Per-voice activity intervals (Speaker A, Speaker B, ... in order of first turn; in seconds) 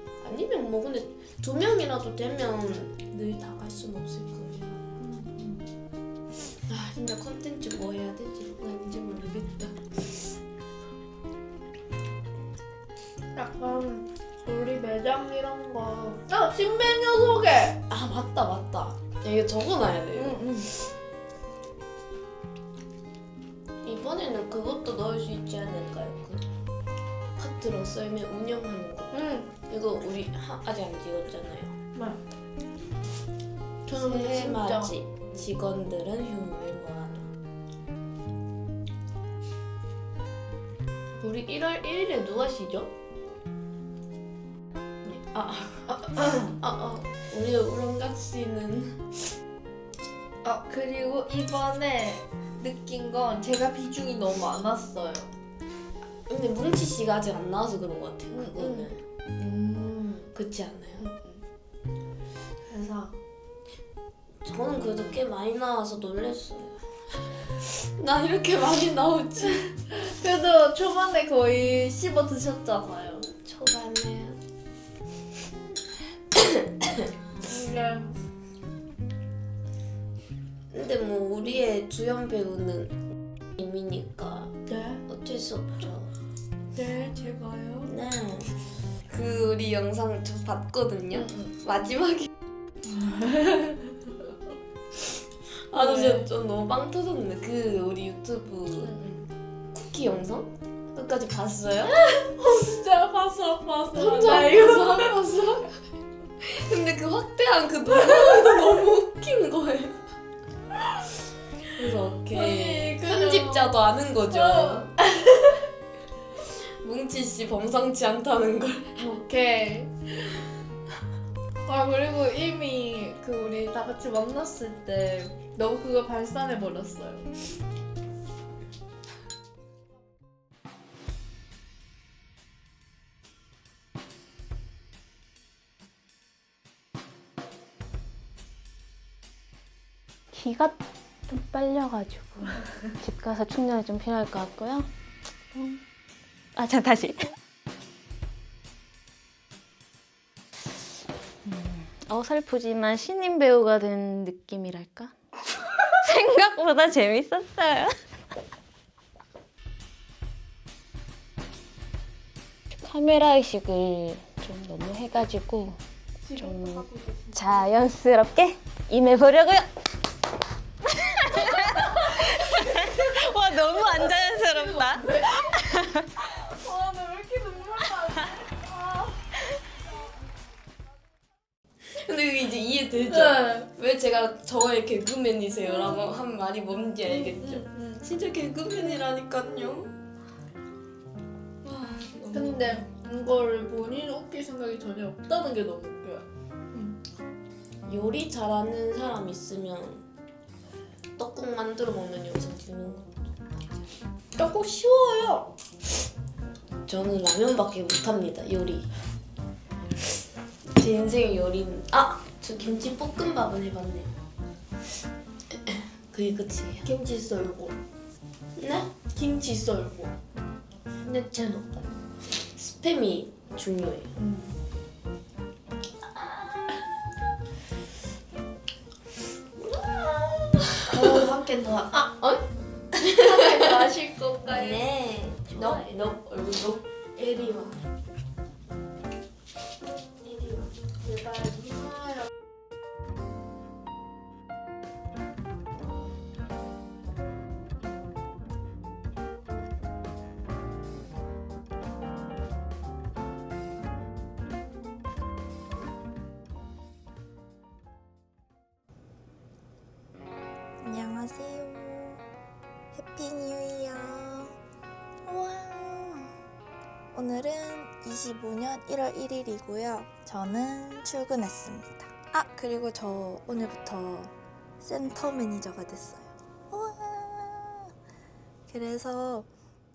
Speaker A: 0.2-4.8, 6.7-10.2, 17.9-20.6, 23.8-26.4, 27.4-29.1, 29.7-31.7, 33.9-37.3, 41.2-42.9, 45.0-49.2, 56.3-59.0, 60.3-61.1, 64.4-66.8, 67.6-69.7, 73.4-74.4, 80.7-82.9, 83.6-84.5, 85.1-86.1, 87.8-88.5, 89.1-92.3, 95.7-99.1, 99.7-102.0, 103.9-105.7, 106.4-110.0, 111.7-114.9, 116.8-119.0, 181.9-189.9, 191.6-192.8, 197.9-200.0, 201.2-203.8, 206.9-208.9, 210.7-214.1, 215.7-216.9, 218.6-218.9, 222.3-224.1, 232.2-232.4, 233.0-233.7, 234.5-237.8, 240.2-240.6
Speaker B: 5.0-5.6, 13.3-17.8, 20.1-20.7, 29.1-29.5, 33.9-34.9, 50.4-55.3, 58.4-60.3, 61.0-61.4, 62.6-63.2, 69.9-73.3, 77.4-78.2, 84.7-85.0, 86.7-87.9, 92.8-94.1, 95.7-96.2, 98.9-99.1, 101.8-105.4, 112.3-113.7, 114.3-115.5, 119.0-119.9, 121.6-127.3, 166.2-167.7, 175.0-175.4, 176.4-179.2, 187.4-187.9, 192.3-196.9, 204.4-205.5, 216.8-217.8, 219.1-220.1, 221.0-221.7, 224.2-224.5, 230.8-232.1, 233.0-234.9, 235.5-235.9, 241.1-242.1
Speaker C: 140.3-140.7, 141.3-144.9, 145.5-145.8, 146.5-147.3, 151.4-155.1, 155.8-157.9, 162.8-165.8, 166.4-169.7, 170.8-176.1
Speaker D: 260.8-262.2, 262.9-264.6, 265.2-266.3, 267.1-277.9, 278.7-279.5